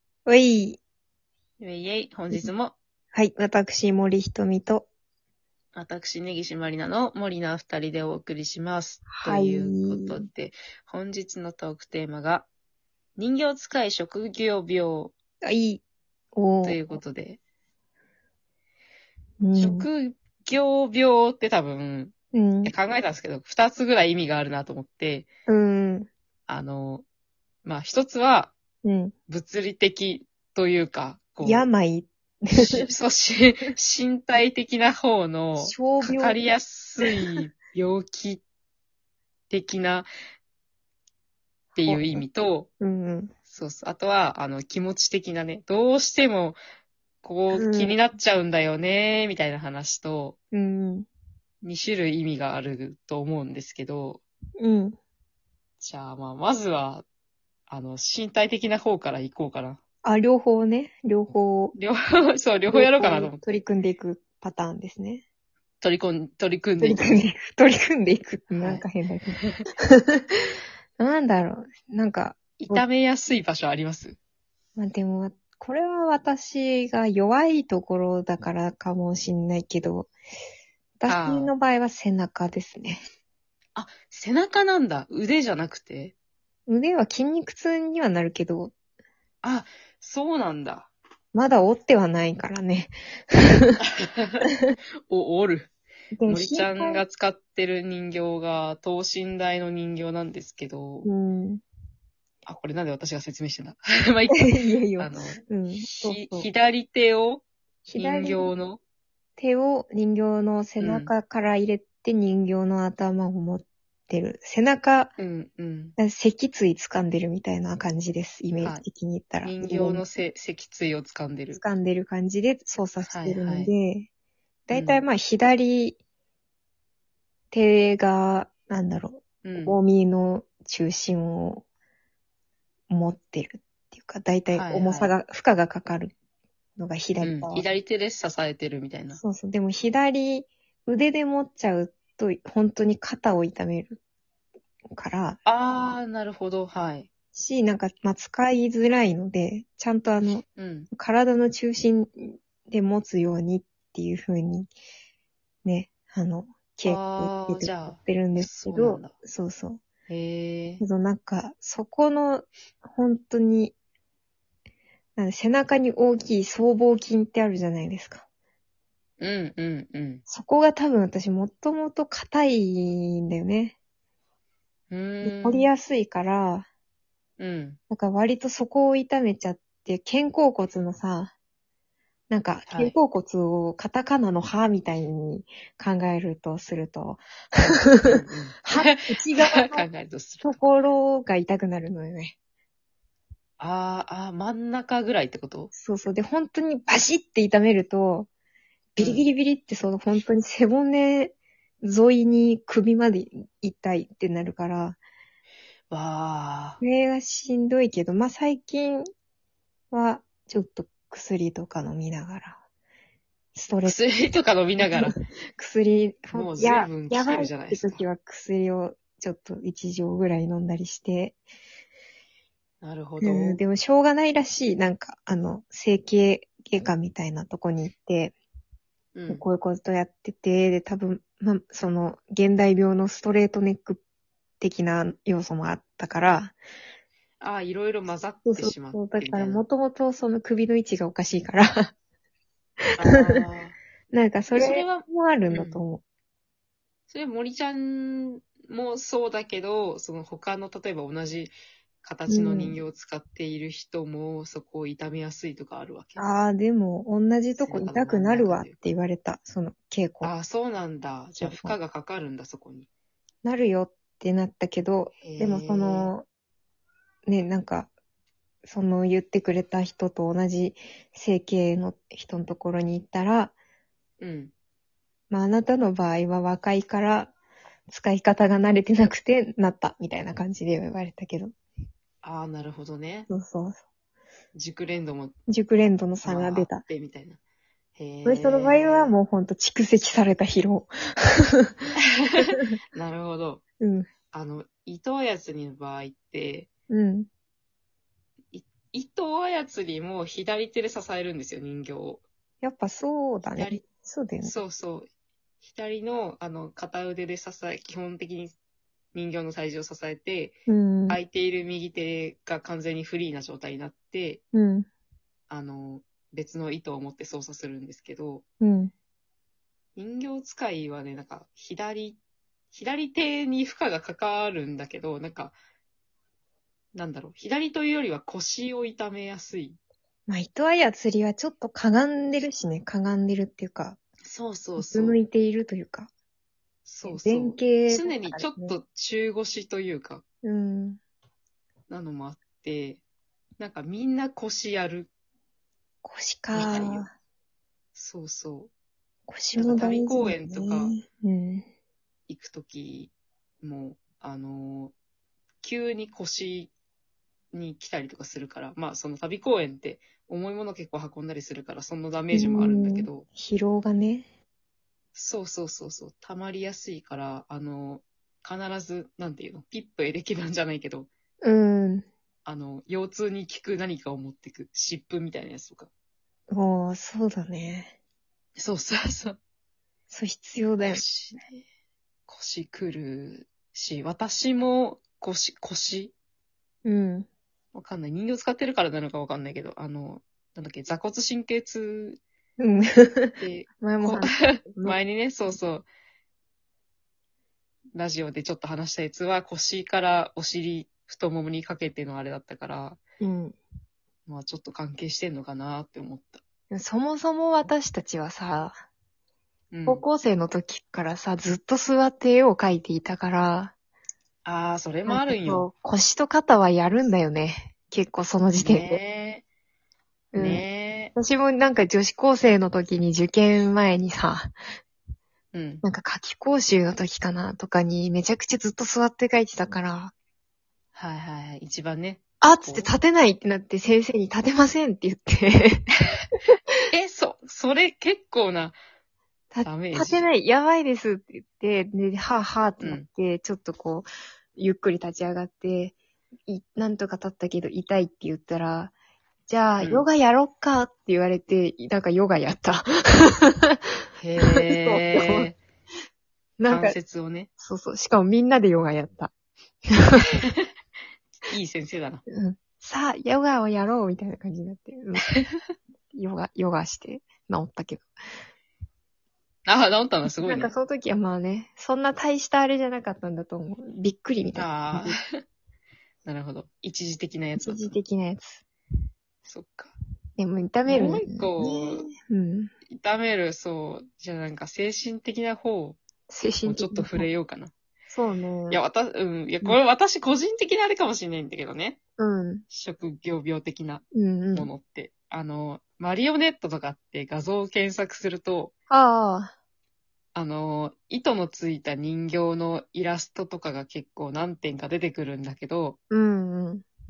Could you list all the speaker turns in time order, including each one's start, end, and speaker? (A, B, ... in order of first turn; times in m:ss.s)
0:00.2-0:00.8 A
0:01.6-0:02.7 B
0:03.1-0:04.9 A
0:05.7-0:12.5 B
0:09.1-0:10.2 A
0:13.2-0:15.1 B
0:15.4-0:15.8 A
0:16.3-0:16.8 A
0:16.6-0:17.4 B
0:19.4-0:19.9 A
0:19.6-0:25.3 B
0:22.3-0:22.7 A
0:25.5-0:26.1 A
0:26.5-0:27.0 B
0:27.6-0:28.5 B
0:28.8-0:29.1 A
0:29.3-0:31.7 B
0:31.4-0:32.8 A
0:32.5-0:38.4 B
0:35.6-0:36.4 A
0:39.5-0:40.1 B
0:41.7-0:42.7 B
0:41.8-0:42.2 A
0:42.8-0:43.3 A
0:43.5-0:46.6 B
0:47.2-0:50.4 B
0:47.5-0:48.0 A
0:50.5-0:51.1 A
0:51.6-0:54.2 B
0:54.6-0:55.0 A
0:55.8-0:57.0 B
0:57.7-0:59.8 B
1:00.0-1:01.7 A
1:01.7-1:03.4 B
1:02.7-1:05.2 A
1:05.8-1:07.2 B
1:06.8-1:10.4 A
1:08.5-1:08.8 B
1:11.0-1:12.8 A
1:12.6-1:14.2 B
1:14.8-1:20.1 A
1:21.0-1:23.0 A
1:21.0-1:21.5 B
1:23.7-1:26.1 B
1:26.7-1:28.7 A
1:29.4-1:30.9 B
1:31.3-1:33.8 A
1:33.8-1:34.5 B
1:35.1-1:35.7 B
1:36.2-1:37.0 A
1:36.3-1:41.1 B
1:41.0-1:41.6 A
1:42.4-1:47.4 B
1:44.3-1:46.5 A
1:47.8-1:48.5 A
1:48.0-1:48.8 B
1:49.4-1:55.1 A
1:50.8-1:51.1 B
1:55.2-1:56.0 B
1:56.0-2:00.0 A
1:59.4-2:01.6 B
2:01.5-2:04.1 A
2:03.0-2:03.7 B
2:04.7-2:06.0 A
2:04.7-2:05.0 B
2:07.5-2:11.6 A
2:09.4-2:09.8 B
2:12.9-2:16.1 A
2:14.5-2:15.1 B
2:16.8-2:17.6 A
2:17.2-2:19.2 B
2:19.2-2:24.0 A
2:24.9-2:25.4 A
2:25.4-2:27.1 B
2:27.3-2:34.7 A
2:30.6-2:30.9 B
2:35.6-2:39.8 A
2:36.8-2:39.1 B
2:40.1-2:40.8 B
2:40.8-2:43.7 A
2:45.2-2:48.2 A
2:49.2-2:50.2 B
2:50.3-2:53.7 A
2:54.9-2:55.7 B
2:55.2-2:56.7 A
2:57.4-2:57.8 B
2:57.9-3:01.3 A
3:02.3-3:09.8 A
3:02.7-3:02.9 B
3:08.0-3:10.6 B
3:10.4-3:12.3 A
3:13.6-3:15.7 B
3:15.7-3:18.3 A
3:19.0-3:25.0 A
3:19.0-3:19.3 B
3:25.9-3:26.8 B
3:26.8-3:29.0 A
3:29.9-3:32.6 A
3:33.5-3:34.0 A
3:33.8-3:35.1 B
3:34.8-3:41.4 A
3:36.3-3:38.0 B
3:42.8-3:43.6 B
3:43.2-3:48.3 A
3:49.1-3:49.4 B
3:49.3-3:54.0 A
3:54.6-3:56.5 A
3:57.4-3:59.6 B
3:58.5-4:01.9 A
4:03.0-4:03.8 B
4:03.1-4:03.4 A
4:04.1-4:06.0 A
4:04.5-4:05.8 B
4:07.1-4:16.2 B
4:12.3-4:12.8 A
4:16.2-4:20.3 A
4:17.6-4:18.8 B
4:20.2-4:22.9 B
4:21.4-4:21.8 A
4:23.4-4:26.2 A
4:25.2-4:26.1 B
4:27.2-4:27.9 A
4:28.6-4:33.5 A
4:34.2-4:34.5 B
4:35.3-4:37.3 A
4:37.9-4:41.5 A
4:42.2-4:43.3 B
4:43.3-4:43.8 A
4:44.5-4:45.3 B
4:45.5-4:46.8 A
4:46.2-4:47.4 B
4:48.0-4:49.1 B
4:48.2-4:52.7 A
4:52.0-4:53.6 B
4:53.8-4:54.1 A
4:54.3-4:56.7 B
4:56.9-4:57.3 A
4:58.5-5:02.2 B
5:02.6-5:04.6 A
5:03.5-5:03.8 B
5:04.4-5:05.1 B
5:05.6-5:08.5 B
5:09.1-5:10.6 B
5:10.7-5:11.2 A
5:11.1-5:14.4 B
5:14.5-5:14.9 A
5:15.5-5:18.4 B
5:18.6-5:18.9 A
5:20.0-5:22.2 B
5:22.7-5:25.6 B
5:26.9-5:29.8 B
5:30.3-5:34.0 A
5:34.2-5:35.2 B
5:34.8-5:36.1 A
5:36.8-5:40.2 B
5:37.0-5:38.8 A
5:40.4-5:41.0 A
5:41.9-5:43.0 B
5:43.6-5:45.1 B
5:46.0-5:47.1 A
5:46.5-5:47.0 B
5:47.9-5:48.7 B
5:49.3-5:51.6 A
5:49.6-5:50.9 B
5:52.3-5:54.9 B
5:55.6-5:56.7 B
5:57.5-6:03.2 B
6:02.3-6:04.2 A
6:05.1-6:11.1 B
6:11.4-6:12.1 A
6:12.4-6:15.9 B
6:16.5-6:17.9 A
6:18.6-6:19.4 B
6:20.1-6:21.0 A
6:20.8-6:21.6 B
6:22.3-6:26.1 B
6:26.8-6:27.3 A
6:27.7-6:32.2 B
6:32.6-6:35.0 A
6:33.4-6:35.8 B
6:37.9-6:43.0 B
6:43.2-6:43.6 A
6:44.3-6:46.4 B
6:46.7-6:48.8 A
6:49.7-6:50.0 B
6:49.9-6:53.7 A
6:54.4-6:55.7 B
6:55.1-6:59.0 A
6:58.6-6:59.4 B
7:00.3-7:00.6 A
7:00.4-7:01.1 B
7:01.2-7:04.5 A
7:05.5-7:05.8 B
7:05.8-7:10.1 A
7:10.9-7:12.9 B
7:12.4-7:15.9 A
7:16.9-7:18.8 B
7:19.5-7:28.9 A
7:19.6-7:20.3 B
7:22.8-7:23.1 B
7:29.5-7:35.5 A
7:29.8-7:30.0 B
7:34.2-7:35.6 B
7:36.6-7:37.0 A
7:36.7-7:37.5 B
7:37.6-7:39.3 A
7:39.9-7:40.3 A
7:40.2-7:40.6 B
7:41.4-7:42.2 B
7:42.3-7:45.4 A
7:46.1-7:48.1 A
7:49.6-7:50.7 B
7:50.2-7:55.2 A
7:54.5-7:55.4 B
7:56.2-7:58.0 B
7:57.6-7:58.6 A
7:59.4-7:59.9 B
8:00.4-8:02.7 A
8:00.8-8:02.1 B
8:02.9-8:06.0 B
8:06.3-8:07.3 A
8:06.6-8:07.7 B
8:08.1-8:08.8 A
8:08.7-8:12.0 B
8:12.2-8:12.6 A
8:12.7-8:18.7 B
8:14.1-8:14.7 A
8:18.9-8:19.5 A
8:20.3-8:26.0 B
8:26.1-8:26.8 A